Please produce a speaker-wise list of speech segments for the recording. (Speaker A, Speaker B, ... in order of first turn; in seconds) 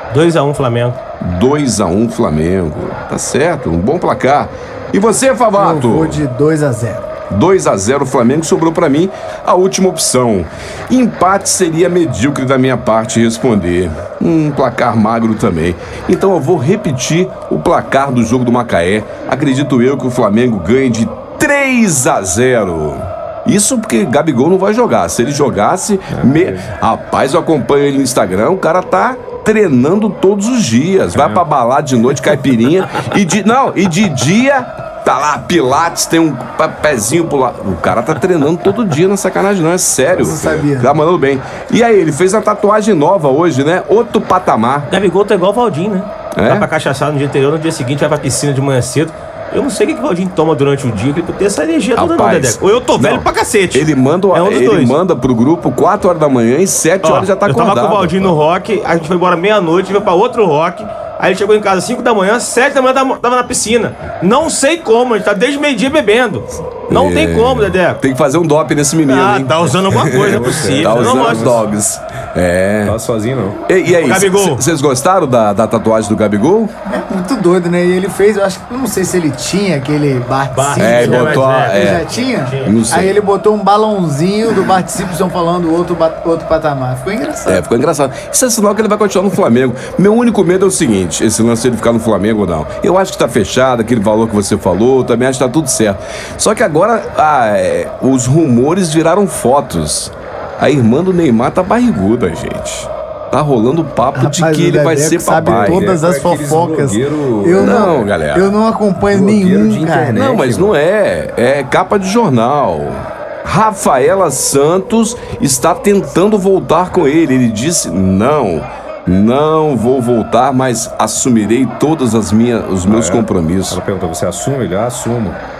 Speaker A: 0.1-1.0, 44.9-55.0, 57.0-68.0, 69.0-71.6, 73.9-74.6, 80.5-83.2
Speaker B: 1.2-6.2, 7.3-44.9, 46.4-46.7, 52.0-58.4, 66.9-73.0, 73.7-76.7, 80.8-82.1, 82.6-83.2, 87.5-105.9, 107.6-108.5, 110.1-123.8
Speaker C: 5.6-7.1, 40.1-41.0, 76.9-87.7, 104.1-110.2
Speaker D: 26.1-26.7, 31.1-31.4, 70.1-71.7, 72.8-73.6, 105.3-108.0, 109.1-110.8, 122.8-125.4